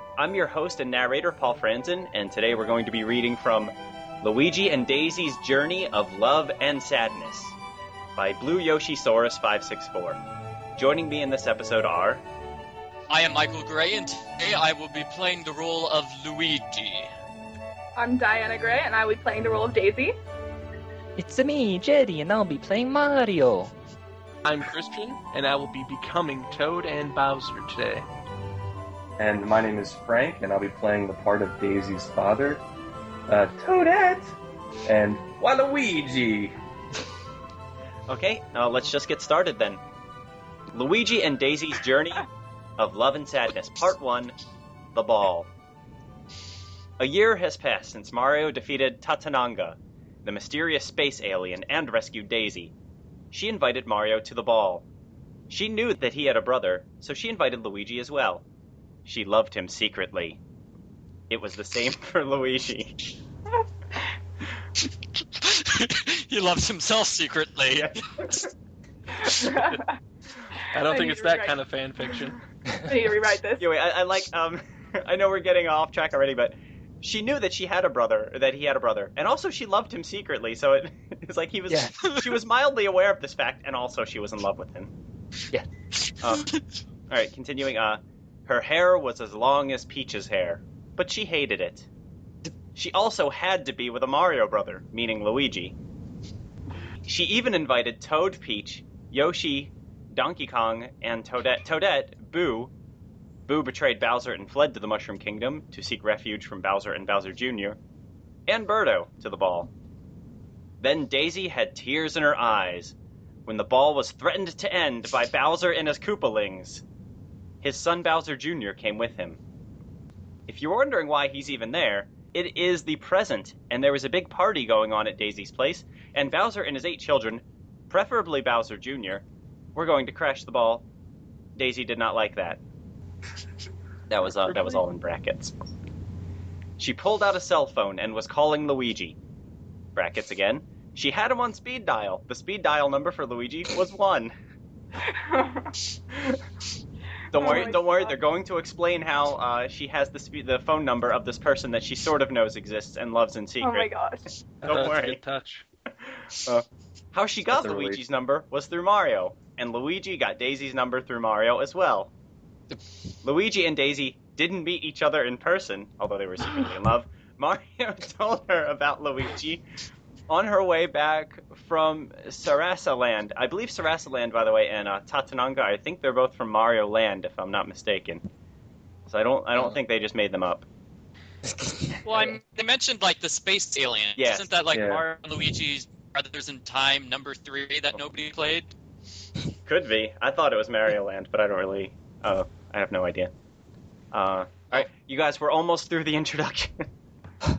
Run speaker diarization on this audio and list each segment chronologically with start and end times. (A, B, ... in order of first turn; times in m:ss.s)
0:00.2-0:07.6 A
0:08.2-0:10.2 A
0:10.8-0:12.2 A
0:13.1-0:17.1 B
0:18.0-0:20.2 C
0:21.2-0:23.7 D
0:24.4-0:28.1 E
0:29.2-0:32.6 F
0:33.3-0:36.6 F
0:38.1-0:39.8 A
0:40.7-0:44.4 A
0:44.9-0:45.5 A
0:47.0-0:52.7 A
0:53.3-0:54.9 A
0:55.5-0:58.4 A
0:59.1-1:00.4 A
1:01.3-1:03.0 A
1:05.4-1:08.4 B
1:07.8-1:08.3 A
1:09.2-1:10.0 C
1:10.7-1:12.4 E
1:10.8-1:11.6 C
1:12.9-1:13.7 C
1:13.6-1:24.9 A
1:21.7-1:21.9 D
1:26.2-1:26.5 A
1:27.1-1:31.9 A
1:32.8-1:35.8 A
1:37.0-1:42.7 A
1:43.5-1:47.8 A
1:48.5-1:49.7 A
1:50.8-1:53.0 A
1:53.5-1:56.8 A
1:57.6-1:59.4 A
2:00.5-2:09.2 A
2:09.8-2:10.9 A
2:11.6-2:12.6 A
2:14.1-2:15.5 A
2:16.8-2:19.2 A
2:20.0-2:24.3 A
2:25.1-2:25.7 C
2:27.3-2:33.9 A
2:27.4-2:28.2 C
2:33.6-2:34.3 C
2:34.6-2:35.6 E
2:34.7-2:35.2 A
2:36.4-2:42.1 A
2:37.5-2:38.0 F
2:43.2-2:49.6 A
2:50.3-2:58.2 A
2:59.1-3:00.7 A
3:01.7-3:02.4 D
3:02.0-3:08.7 B
3:04.2-3:04.5 A
3:04.7-3:05.0 F
3:09.7-3:13.3 A
3:14.1-3:16.9 A